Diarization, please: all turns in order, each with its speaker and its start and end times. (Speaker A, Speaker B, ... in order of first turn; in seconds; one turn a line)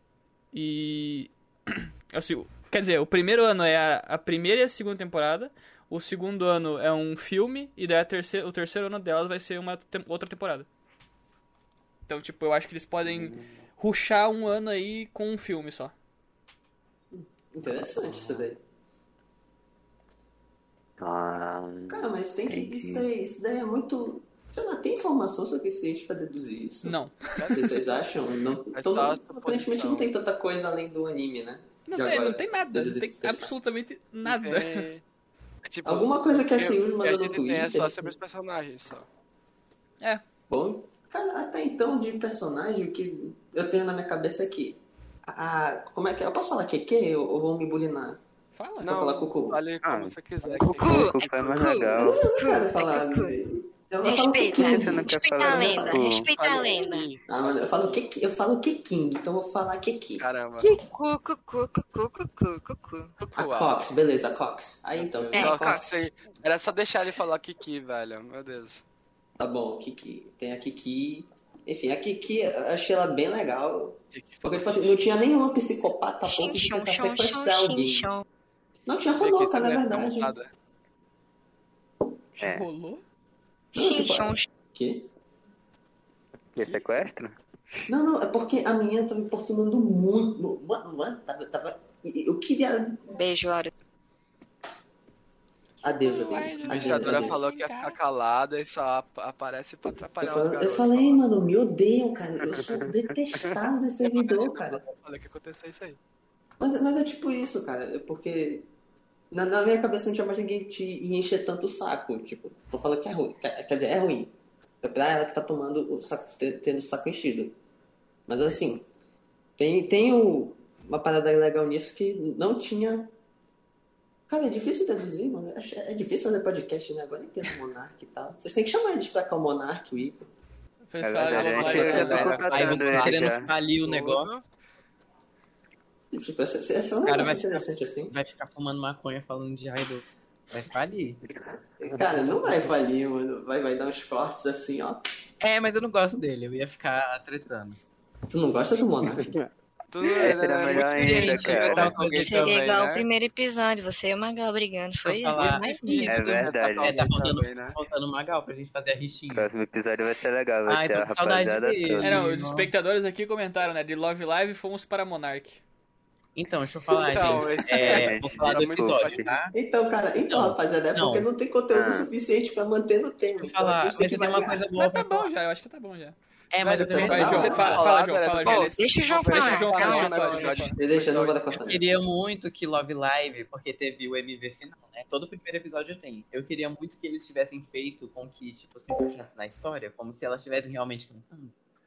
Speaker A: 0.5-10.7
Speaker A: 12.1-15.9
Speaker B: 13.0-13.5
Speaker C: 17.1-18.6
Speaker B: 17.7-18.5
Speaker B: 21.0-23.1
Speaker C: 21.9-33.5
Speaker A: 26.8-27.4
Speaker D: 27.4-28.0
Speaker D: 28.7-30.1
Speaker A: 31.9-34.9
Speaker D: 34.2-35.0
Speaker D: 35.6-39.1
Speaker C: 35.9-38.1
Speaker C: 40.5-48.2
Speaker A: 48.5-49.1
Speaker D: 48.8-51.8
Speaker C: 48.9-49.6
Speaker B: 49.8-52.3
Speaker E: 50.7-53.4
Speaker C: 52.0-56.1
Speaker E: 54.0-57.1
Speaker B: 54.6-56.3
Speaker D: 56.3-58.0
Speaker C: 57.3-60.2
Speaker D: 60.2-60.7
Speaker E: 60.6-63.1
Speaker D: 63.2-63.9
Speaker C: 63.4-66.1
Speaker D: 65.0-68.8
Speaker E: 65.3-65.9
Speaker C: 69.4-78.1
Speaker D: 74.1-75.0
Speaker E: 76.2-78.2
Speaker C: 78.9-80.3
Speaker D: 79.2-80.5
Speaker A: 82.4-83.0
Speaker B: 82.4-82.7
Speaker E: 83.7-84.5
Speaker C: 83.8-85.1
Speaker B: 86.5-87.4
Speaker C: 87.9-93.0
Speaker E: 93.1-93.7
Speaker C: 95.8-97.4
Speaker A: 95.9-98.0
Speaker D: 96.7-101.3
Speaker C: 100.2-104.8
Speaker B: 102.5-102.8
Speaker D: 104.0-106.0
Speaker C: 106.6-108.7
Speaker C: 109.3-117.5
Speaker C: 118.3-118.9
Speaker C: 119.6-123.1
Speaker C: 124.3-130.3
Speaker A: 130.8-132.3
Speaker B: 131.0-133.5
Speaker D: 131.3-134.5
Speaker C: 131.5-132.5
Speaker F: 132.1-134.5
Speaker C: 136.1-138.1
Speaker F: 137.1-141.2
Speaker B: 141.5-142.0
Speaker C: 141.8-145.1
Speaker F: 142.1-142.7
Speaker F: 145.4-147.8
Speaker C: 148.3-149.4
Speaker D: 149.9-153.1
Speaker B: 150.2-152.0
Speaker F: 150.7-152.6
Speaker E: 152.2-156.4
Speaker F: 155.0-159.5
Speaker D: 155.8-157.8
Speaker B: 156.1-157.1
Speaker B: 159.3-162.2
Speaker F: 160.7-162.7
Speaker A: 162.0-165.6
Speaker F: 166.3-169.6
Speaker D: 167.1-169.3
Speaker B: 167.8-169.3
Speaker C: 169.5-174.6
Speaker F: 170.2-171.3
Speaker B: 171.7-172.1
Speaker F: 173.4-175.3
Speaker A: 174.8-176.2
Speaker F: 176.5-177.8
Speaker D: 176.6-181.6
Speaker C: 176.9-177.7
Speaker A: 177.0-178.7
Speaker E: 178.4-180.7
Speaker A: 179.3-180.8
Speaker C: 180.8-181.8
Speaker F: 181.5-191.5